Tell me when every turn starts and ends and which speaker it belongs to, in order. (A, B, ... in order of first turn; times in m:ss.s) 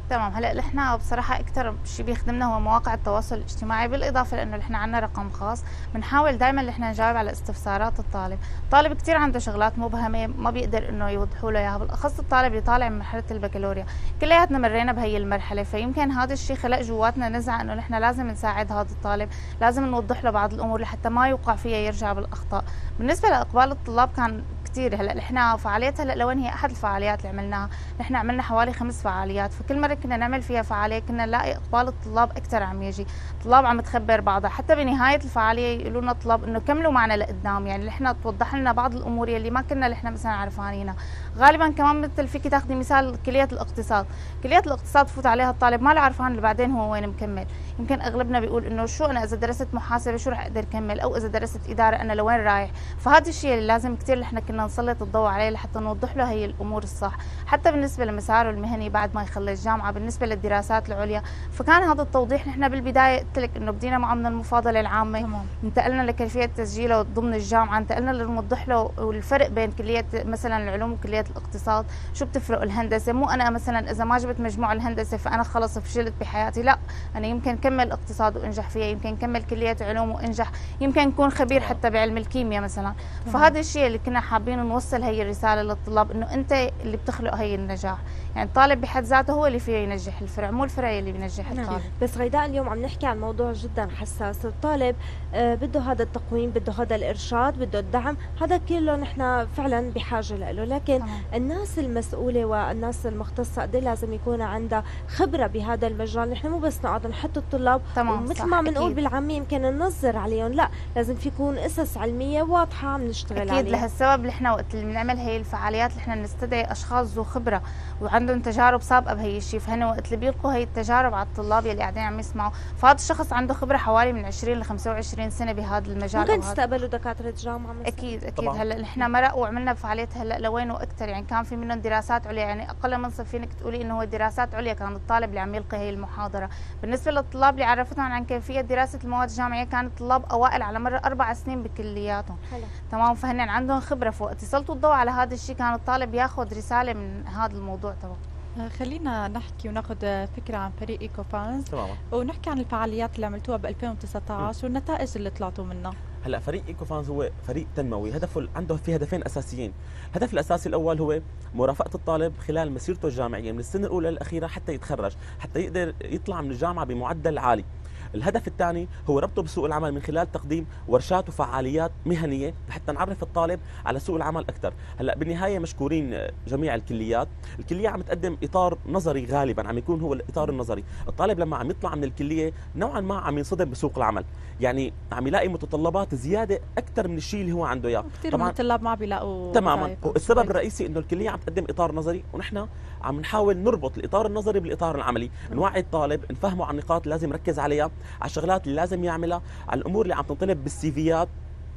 0:00.1-1:31.9 A
1:05.2-1:05.5 B
1:21.5-1:21.8 C
1:31.5-1:53.8 D
1:48.0-1:49.0 A
1:53.3-2:06.6 A
2:06.1-2:08.2 D
2:07.9-2:22.4 A
2:08.4-2:08.6 C
2:22.9-2:28.2 A
2:28.6-2:36.0 B
2:31.7-2:32.0 C
2:36.2-3:08.5 C
3:08.1-3:10.5 B
3:09.5-3:21.3 C